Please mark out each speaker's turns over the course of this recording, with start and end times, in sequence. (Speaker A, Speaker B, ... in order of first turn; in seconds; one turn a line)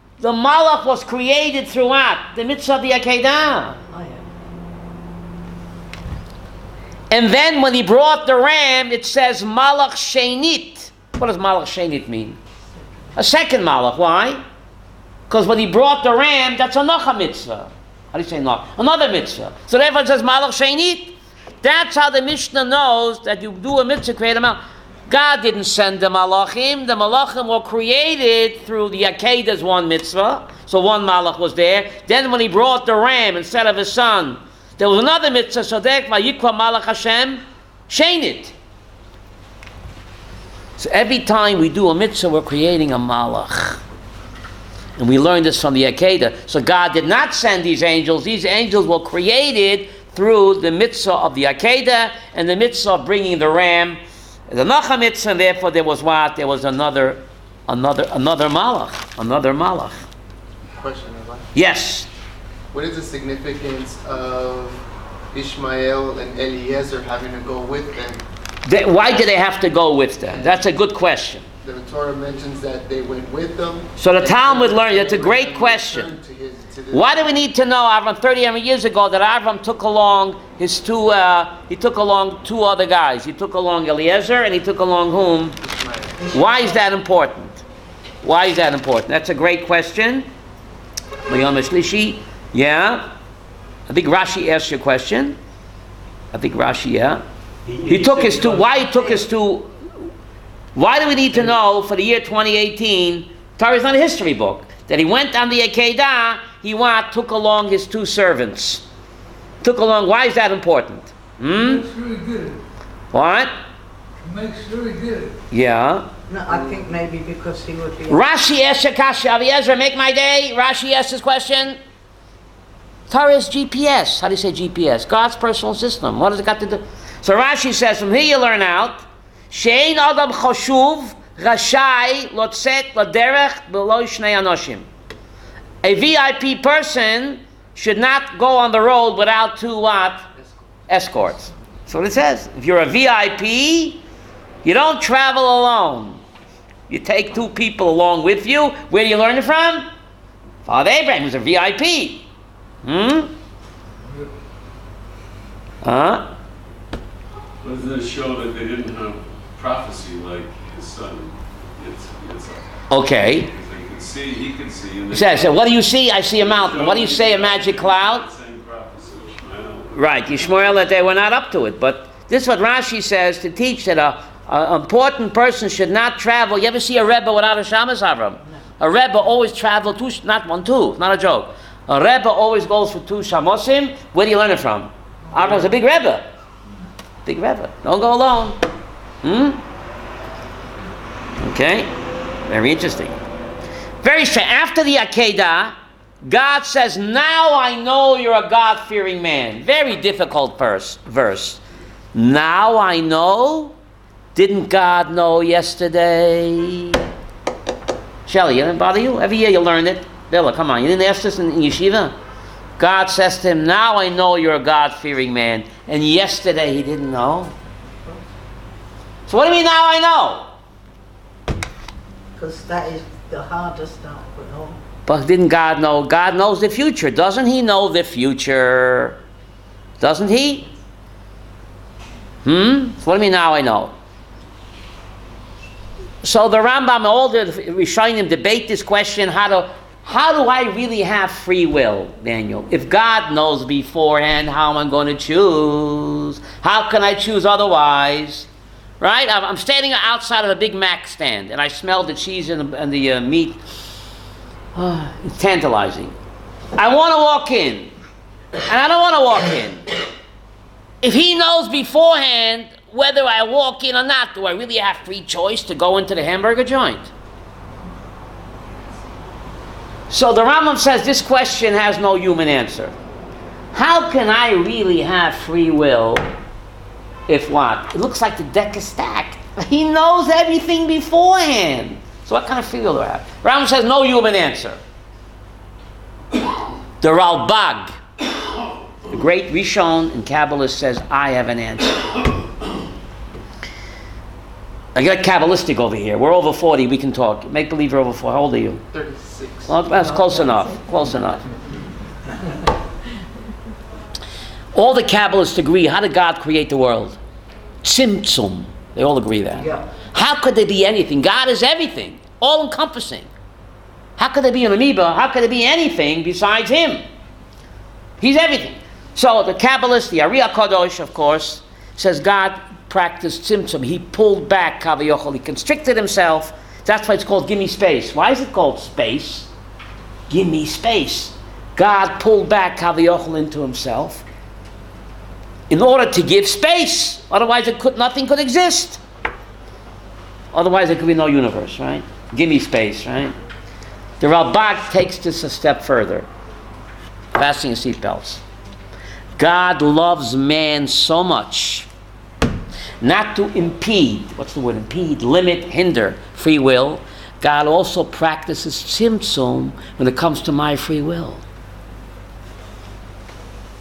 Speaker A: 0.2-3.8
Speaker A: 7.1-12.4
Speaker A: 13.2-14.4
Speaker A: 15.3-38.5
Speaker A: 40.8-43.8
Speaker A: 45.0-60.1
Speaker B: 60.8-61.5
Speaker A: 61.5-62.1
Speaker B: 62.7-68.2
Speaker A: 68.7-71.5
Speaker B: 71.6-77.1
Speaker A: 74.0-76.2
Speaker A: 76.9-85.6
Speaker B: 85.7-86.2
Speaker A: 86.3-87.6
Speaker A: 88.2-90.3
Speaker A: 91.3-93.1
Speaker A: 93.9-95.4
Speaker A: 96.3-97.2
Speaker A: 97.8-99.7
Speaker A: 100.8-108.8
Speaker A: 109.6-111.9
Speaker C: 111.5-112.6
Speaker A: 113.1-113.5
Speaker C: 114.2-115.4
Speaker A: 115.5-116.1
Speaker D: 116.3-118.2
Speaker A: 118.1-121.8
Speaker A: 123.1-134.9
Speaker A: 135.8-140.2
Speaker A: 140.9-144.0
Speaker A: 144.6-146.2
Speaker A: 146.9-149.9
Speaker A: 150.7-152.3
Speaker A: 152.8-153.3
Speaker A: 155.8-156.3
Speaker E: 157.6-165.6
Speaker A: 162.9-163.5
Speaker A: 165.1-168.3
Speaker E: 166.3-170.8
Speaker A: 169.9-186.2
Speaker A: 187.2-188.6
Speaker A: 189.2-189.6
Speaker A: 191.4-191.9
Speaker A: 192.5-193.2
Speaker A: 194.0-201.6
Speaker A: 202.1-203.8
Speaker A: 204.3-207.0
Speaker A: 208.3-212.2
Speaker A: 212.8-217.5
Speaker A: 219.3-220.5
Speaker D: 222.4-224.8
Speaker A: 225.1-229.2
Speaker A: 230.0-230.7
Speaker A: 232.4-233.9
Speaker A: 236.2-248.5
Speaker A: 249.0-253.6
Speaker A: 254.8-256.1
Speaker A: 256.8-257.9
Speaker A: 258.7-259.9
Speaker A: 261.0-267.1
Speaker A: 270.1-272.9
Speaker A: 273.7-276.3
Speaker A: 277.3-284.8
Speaker A: 287.0-287.9
Speaker A: 289.1-292.2
Speaker A: 294.9-298.8
Speaker B: 298.9-299.8
Speaker A: 299.7-301.4
Speaker A: 304.7-307.2
Speaker A: 307.8-313.3
Speaker D: 309.6-309.9
Speaker A: 314.2-317.0
Speaker A: 318.2-329.5
Speaker A: 330.3-334.2
Speaker A: 335.7-339.0
Speaker A: 340.5-343.4
Speaker A: 344.2-346.3
Speaker A: 347.4-348.4
Speaker A: 349.4-351.9
Speaker A: 353.0-361.4